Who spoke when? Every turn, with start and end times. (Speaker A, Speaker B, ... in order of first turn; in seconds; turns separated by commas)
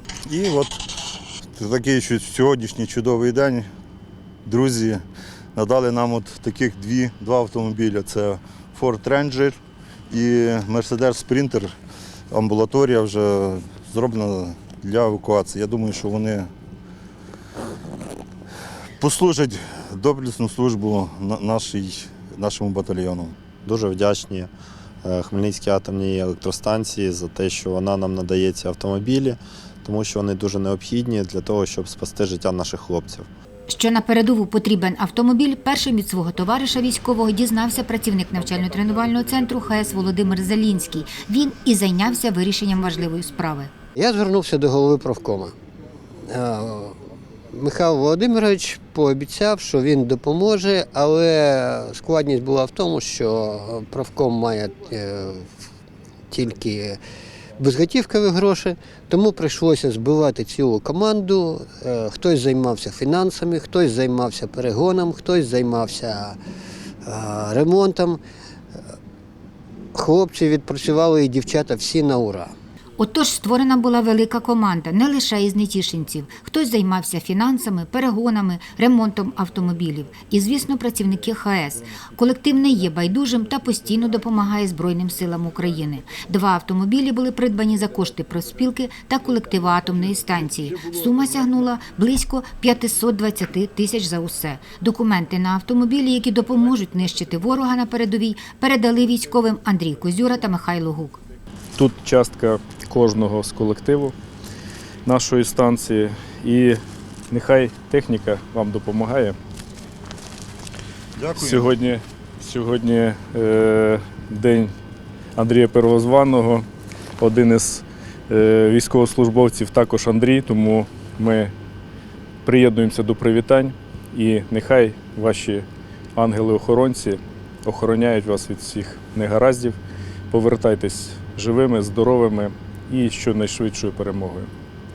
Speaker A: 0.3-0.8, Speaker A: 1.6-3.7, Speaker A: 4.5-5.0, Speaker A: 5.5-9.6, Speaker A: 10.1-11.7, Speaker A: 12.3-16.5, Speaker A: 19.0-23.4, Speaker B: 23.6-24.5, Speaker B: 25.0-33.3, Speaker C: 33.7-43.7, Speaker D: 44.0-45.5, Speaker D: 46.3-47.0, Speaker D: 47.5-55.5, Speaker D: 56.3-57.0, Speaker D: 57.6-66.4, Speaker D: 67.0-68.2, Speaker D: 69.9-72.5, Speaker C: 73.0-101.2, Speaker E: 101.8-104.2, Speaker E: 105.0-106.8, Speaker E: 107.3-109.4, Speaker A: 111.2-111.7, Speaker E: 111.3-114.7, Speaker E: 115.4-116.7, Speaker E: 117.2-121.5, Speaker E: 122.4-129.8, Speaker E: 130.3-134.5